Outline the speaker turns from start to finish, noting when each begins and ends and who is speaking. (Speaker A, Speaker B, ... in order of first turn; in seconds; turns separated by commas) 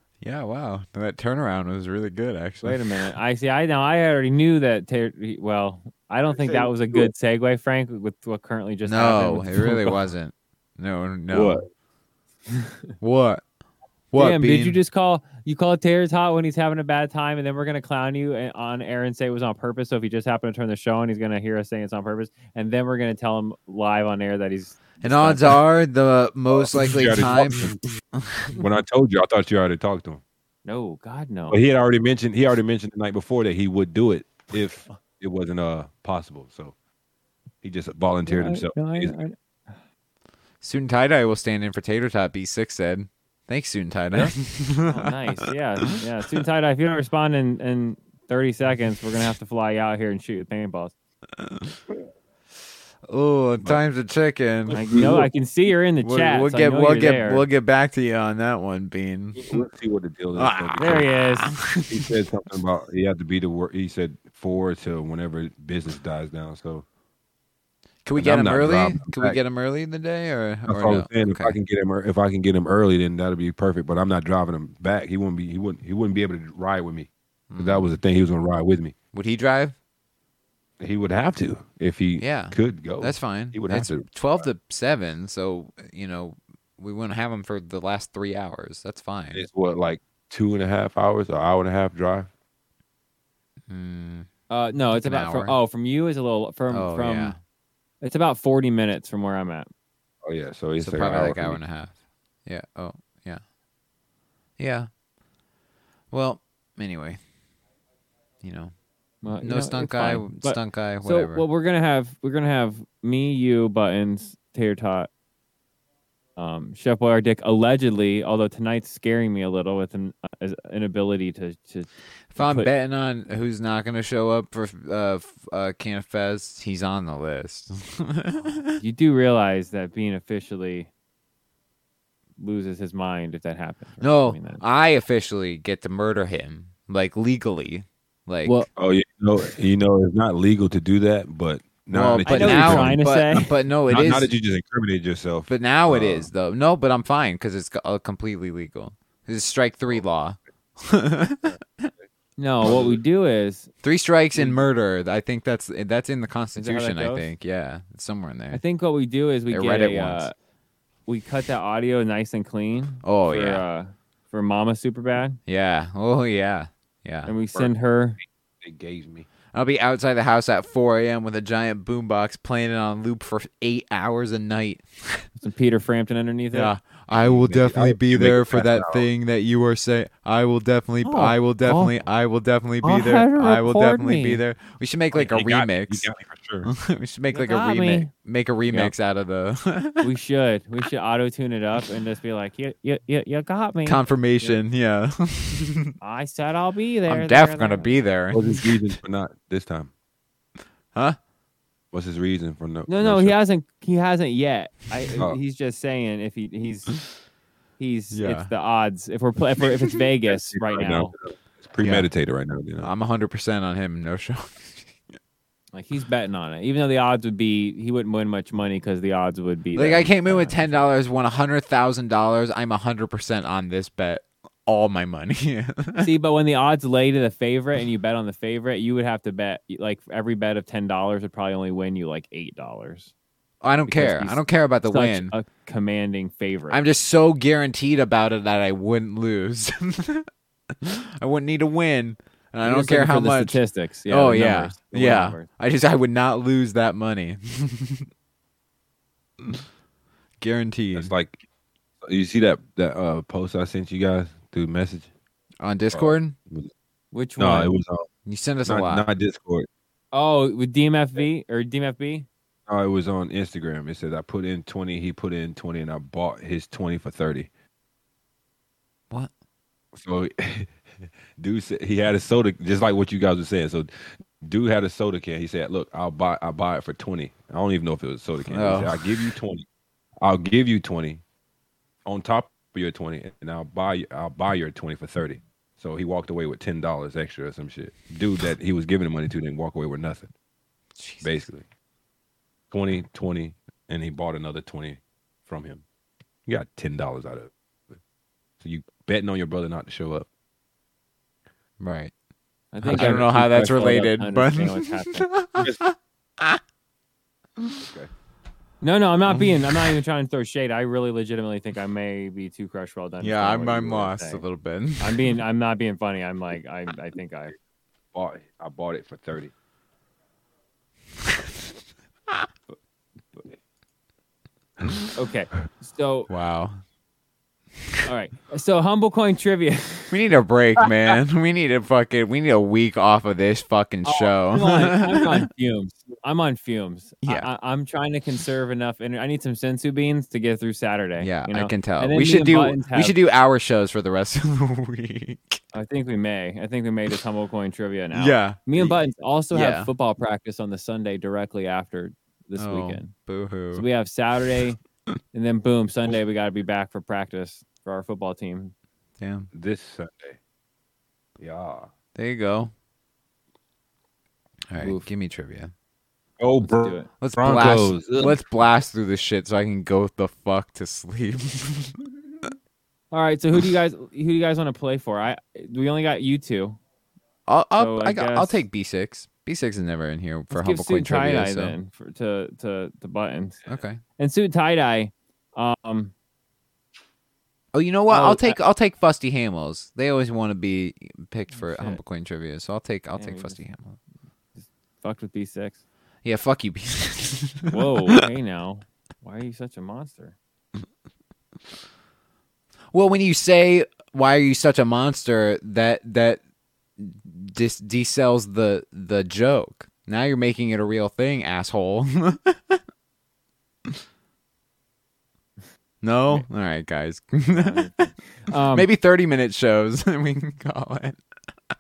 Speaker A: 0.2-2.8, Speaker B: 2.6-9.9, Speaker C: 6.3-7.1, Speaker A: 8.8-11.6, Speaker C: 11.3-11.7, Speaker A: 13.0-13.4, Speaker A: 14.1-14.8, Speaker B: 14.2-25.6, Speaker A: 25.0-28.5, Speaker C: 26.5-27.8, Speaker C: 28.5-30.2, Speaker B: 30.6-31.6, Speaker C: 31.5-36.7, Speaker C: 37.6-39.2, Speaker B: 38.3-39.8, Speaker A: 40.6-45.2, Speaker B: 44.9-50.9, Speaker A: 51.4-51.8, Speaker A: 53.1-54.8, Speaker C: 54.7-55.3, Speaker B: 54.7-57.4, Speaker A: 56.0-59.6, Speaker C: 59.4-61.1, Speaker A: 60.4-62.1, Speaker B: 60.8-61.5, Speaker C: 61.9-66.8, Speaker A: 68.0-71.6, Speaker C: 68.2-69.4, Speaker C: 70.7-78.9, Speaker A: 77.5-78.0, Speaker A: 79.1-79.8, Speaker C: 80.8-84.1, Speaker A: 82.2-89.4, Speaker C: 89.3-92.3, Speaker A: 93.7-94.3, Speaker B: 94.5-97.3, Speaker A: 95.0-95.6, Speaker A: 96.7-97.4, Speaker B: 98.0-99.7, Speaker C: 100.2-101.6, Speaker A: 100.8-103.4, Speaker A: 104.6-104.9, Speaker A: 106.1-107.2, Speaker A: 108.4-108.7, Speaker B: 109.2-115.1, Speaker A: 109.4-111.5, Speaker B: 116.4-122.7, Speaker A: 122.3-128.8, Speaker B: 128.8-130.9, Speaker B: 132.4-134.6, Speaker A: 134.0-138.7, Speaker C: 138.8-143.1, Speaker A: 141.9-144.3, Speaker B: 142.3-143.5, Speaker C: 143.9-146.3, Speaker A: 145.5-151.9, Speaker B: 152.4-153.7, Speaker C: 152.6-153.0, Speaker A: 153.8-158.6, Speaker B: 154.3-154.6, Speaker B: 156.6-157.3, Speaker B: 158.5-160.3, Speaker A: 159.5-160.3, Speaker B: 161.1-165.4, Speaker A: 163.0-163.6, Speaker A: 165.5-167.3, Speaker B: 167.3-168.2, Speaker C: 168.6-169.3, Speaker A: 169.5-175.3, Speaker B: 175.4-176.7, Speaker A: 176.5-186.1, Speaker C: 177.1-179.1, Speaker B: 181.1-182.0, Speaker B: 182.8-184.4, Speaker C: 185.1-186.7, Speaker A: 186.6-190.1, Speaker B: 187.3-188.1, Speaker B: 190.0-194.6, Speaker A: 193.8-195.9, Speaker B: 196.0-198.0, Speaker A: 197.1-198.9, Speaker C: 198.3-199.9, Speaker A: 200.9-201.2, Speaker C: 201.9-203.4, Speaker B: 202.9-206.9, Speaker B: 207.8-211.1, Speaker A: 208.1-208.5, Speaker C: 210.3-212.9, Speaker A: 211.8-212.1, Speaker A: 212.8-215.0, Speaker B: 215.7-220.8, Speaker A: 219.8-226.1, Speaker B: 226.0-233.1, Speaker A: 233.6-235.3, Speaker B: 233.9-236.8, Speaker A: 236.7-248.1, Speaker B: 242.6-245.5, Speaker A: 250.4-251.1, Speaker C: 250.9-251.4, Speaker C: 252.0-255.1, Speaker A: 255.6-256.4, Speaker C: 255.9-256.7, Speaker B: 257.1-257.7, Speaker C: 257.4-258.1, Speaker A: 258.3-259.1, Speaker C: 258.6-259.7, Speaker B: 260.1-262.3, Speaker C: 262.7-267.5, Speaker C: 269.9-270.7, Speaker C: 271.4-279.6, Speaker A: 278.4-279.1, Speaker C: 280.2-281.2, Speaker C: 282.1-290.3, Speaker A: 291.0-291.5, Speaker C: 291.2-291.6, Speaker C: 292.7-295.8, Speaker C: 296.5-298.0, Speaker C: 298.6-300.3, Speaker A: 301.8-302.1, Speaker B: 302.7-305.3, Speaker A: 302.8-306.6, Speaker C: 302.9-303.2, Speaker C: 307.8-308.1, Speaker B: 308.8-314.4, Speaker A: 309.3-309.6, Speaker A: 313.2-315.3, Speaker B: 315.0-317.5, Speaker C: 318.1-319.5, Speaker B: 325.1-326.3, Speaker A: 326.3-326.8, Speaker B: 328.1-330.2, Speaker A: 330.1-335.4, Speaker B: 334.1-343.1, Speaker A: 337.2-337.5, Speaker A: 341.2-345.6, Speaker B: 345.7-353.1, Speaker A: 348.1-348.6, Speaker A: 349.5-349.9, Speaker A: 352.6-353.9, Speaker B: 353.7-354.8, Speaker B: 355.3-358.7, Speaker A: 359.2-359.5, Speaker C: 359.5-360.4, Speaker C: 361.4-361.9, Speaker A: 362.1-362.7, Speaker A: 364.7-365.7, Speaker B: 364.8-365.1, Speaker C: 366.4-368.4, Speaker B: 366.6-367.1, Speaker A: 367.2-372.0, Speaker B: 373.1-376.8, Speaker A: 377.5-381.8, Speaker B: 377.8-378.6, Speaker B: 380.5-383.6, Speaker A: 383.7-384.0, Speaker B: 384.2-386.1, Speaker A: 387.7-394.0, Speaker B: 388.1-388.6, Speaker B: 391.5-392.0, Speaker B: 393.2-393.6, Speaker B: 394.6-395.8, Speaker A: 396.2-398.0, Speaker B: 397.7-400.4, Speaker A: 402.9-406.4, Speaker A: 407.0-412.8, Speaker A: 416.0-421.2, Speaker B: 417.5-418.9